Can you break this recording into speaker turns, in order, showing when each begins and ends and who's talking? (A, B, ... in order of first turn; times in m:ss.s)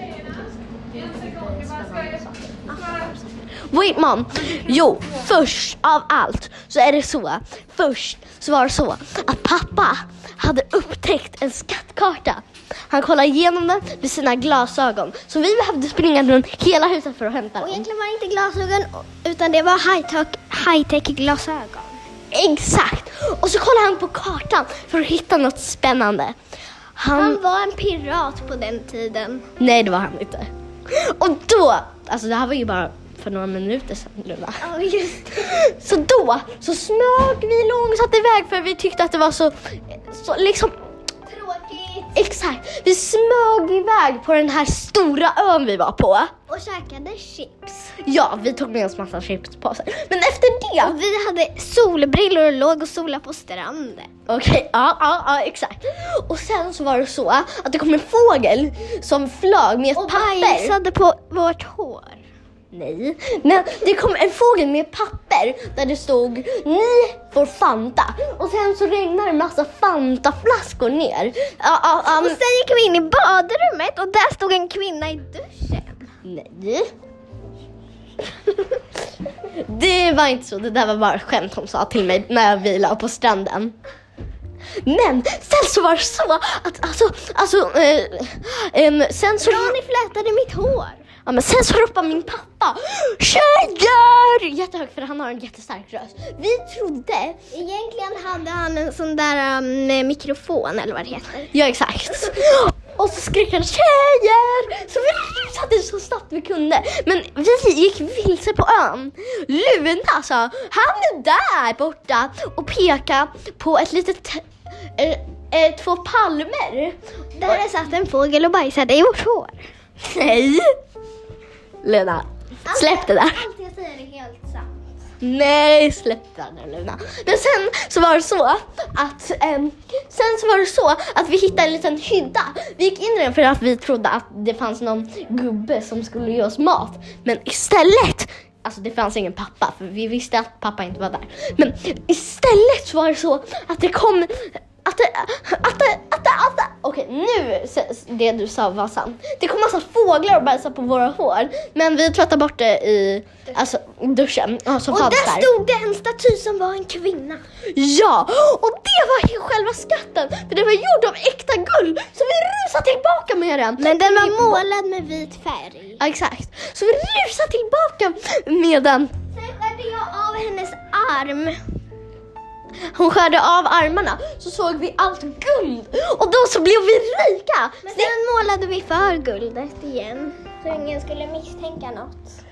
0:01.0-0:17.9 A
0:17.6-0:22.0 B
0:22.3-0:26.4 A
0:27.0-0:27.4 A
0:27.1-0:29.5 B
0:29.6-0:34.7 A
0:34.6-0:35.4 B
0:35.3-0:40.7 A
0:41.3-0:42.2 B
0:42.1-0:46.3 A
0:46.5-0:48.0 B
0:48.0-0:51.0 A
0:50.8-0:54.1 B
0:54.3-1:00.8 A
1:00.0-1:02.2 B
1:02.7-1:12.4 A
1:12.0-1:16.1 B
1:16.2-1:16.9 A
1:18.5-1:18.8 A
1:19.4-1:23.7 A
1:24.8-1:29.8 A
1:29.4-1:31.1 B
1:31.2-1:37.4 A
1:37.5-1:41.5 B
1:41.5-1:57.6 A
1:57.4-1:59.7 B
2:00.0-2:00.7 A
2:01.8-2:03.5 A
2:02.7-2:04.7 B
2:05.2-2:35.5 A
2:34.9-2:37.4 B
2:37.6-2:44.6 A
2:43.8-2:46.0 B
2:46.0-2:49.1 A
2:49.3-2:51.6 B
2:52.9-2:58.2 A
2:57.8-3:02.4 B